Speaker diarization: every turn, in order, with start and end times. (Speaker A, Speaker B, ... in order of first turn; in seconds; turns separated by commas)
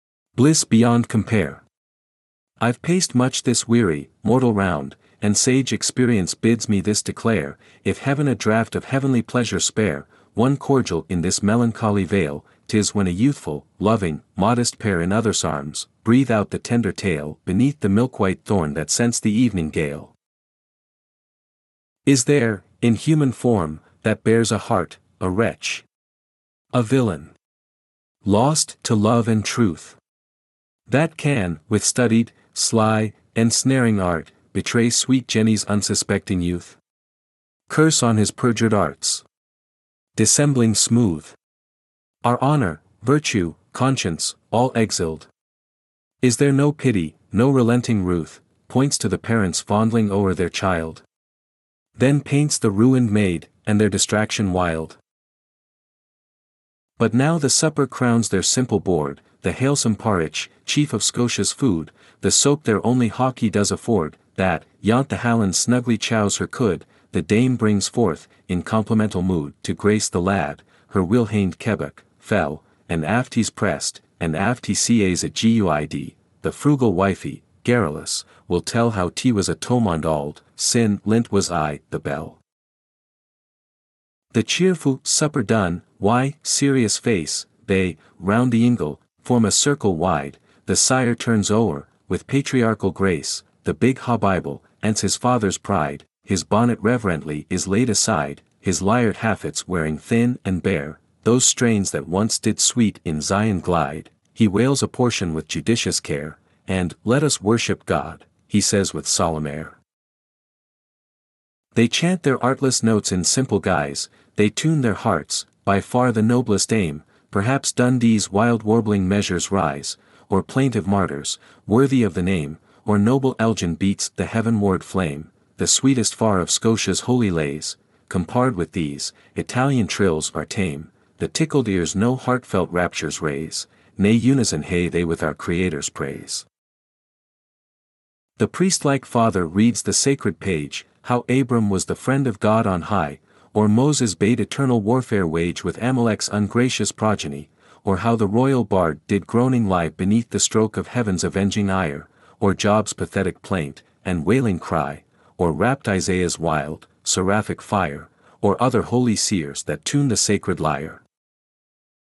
Speaker A: 0.3-1.6, Speaker A: 2.6-20.1, Speaker A: 22.1-25.9, Speaker A: 26.7-27.3, Speaker A: 28.2-30.0, Speaker A: 30.9-36.8, Speaker A: 37.7-39.2, Speaker A: 40.1-41.4, Speaker A: 42.2-45.3, Speaker A: 46.2-51.0, Speaker A: 51.9-55.0, Speaker A: 57.0-82.4, Speaker A: 84.3-109.8, Speaker A: 111.7-136.5, Speaker A: 138.4-161.0